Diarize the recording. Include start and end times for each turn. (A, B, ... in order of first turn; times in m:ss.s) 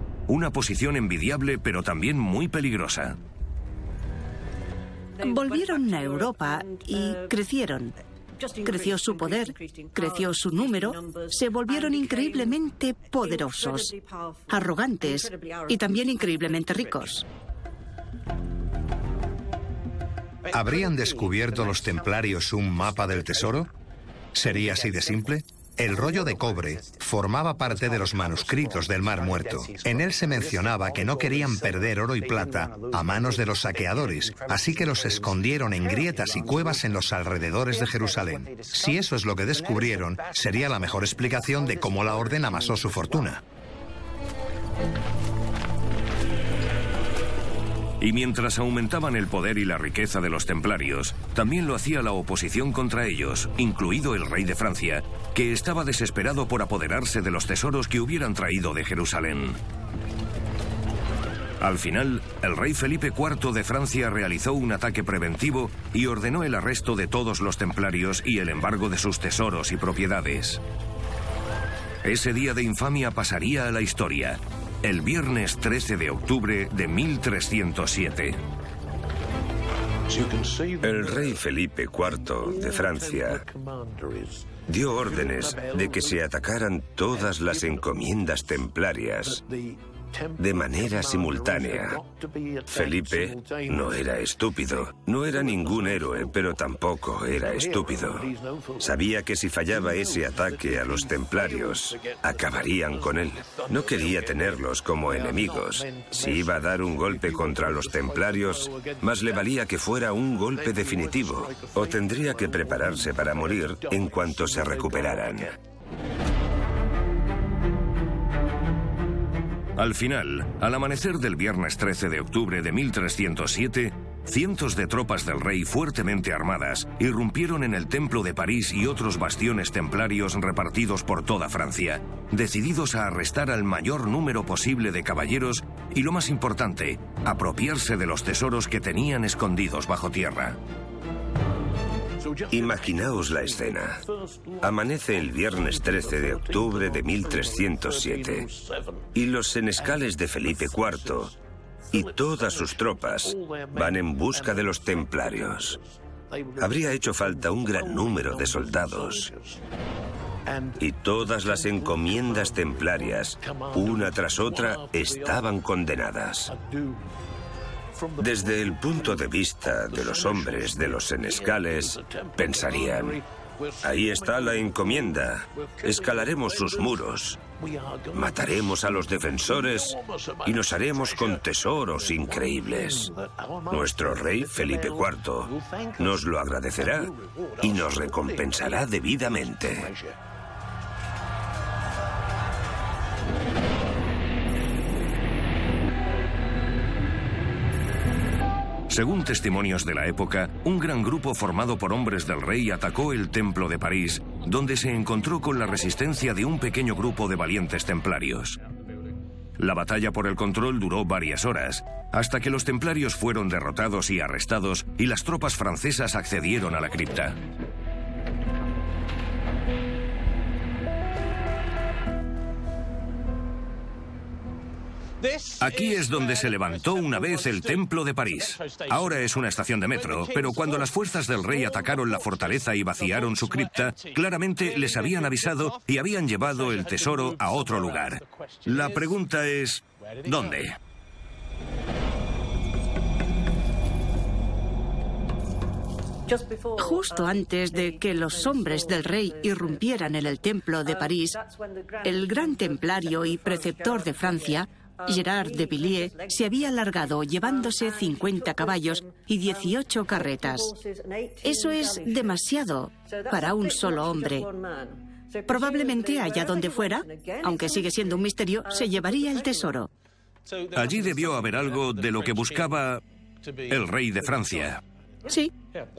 0:00.3-0:03.2 A
0:05.2-0:07.9 B
0:08.6-0:14.0 B
0:14.5-0:17.2 B
0:20.5-0:23.7 C
0:24.4-0:43.4 C
0:48.0-0:59.6 A
1:01.6-1:10.6 A
1:12.0-1:18.4 A
1:20.8-1:23.4 D
1:24.7-1:29.4 D
1:30.4-1:32.0 D
1:32.7-1:55.6 D
1:59.8-2:20.6 A
2:22.5-2:24.0 D
2:24.6-2:28.5 D
2:29.2-2:31.4 D
2:31.9-2:35.8 D
2:36.6-2:39.3 D
2:40.8-2:46.5 D
2:48.2-2:53.2 D
2:53.8-2:57.4 D
2:58.1-3:03.1 D
3:03.7-3:09.9 D
3:18.9-3:28.6 A
3:29.6-3:37.4 A
3:45.6-4:00.8 A
4:06.8-4:11.4 B
4:12.0-4:20.8 B
4:21.4-4:24.5 B
4:25.5-4:29.9 B
4:30.7-4:33.0 A
4:33.7-4:34.8 A
4:35.3-4:35.5 B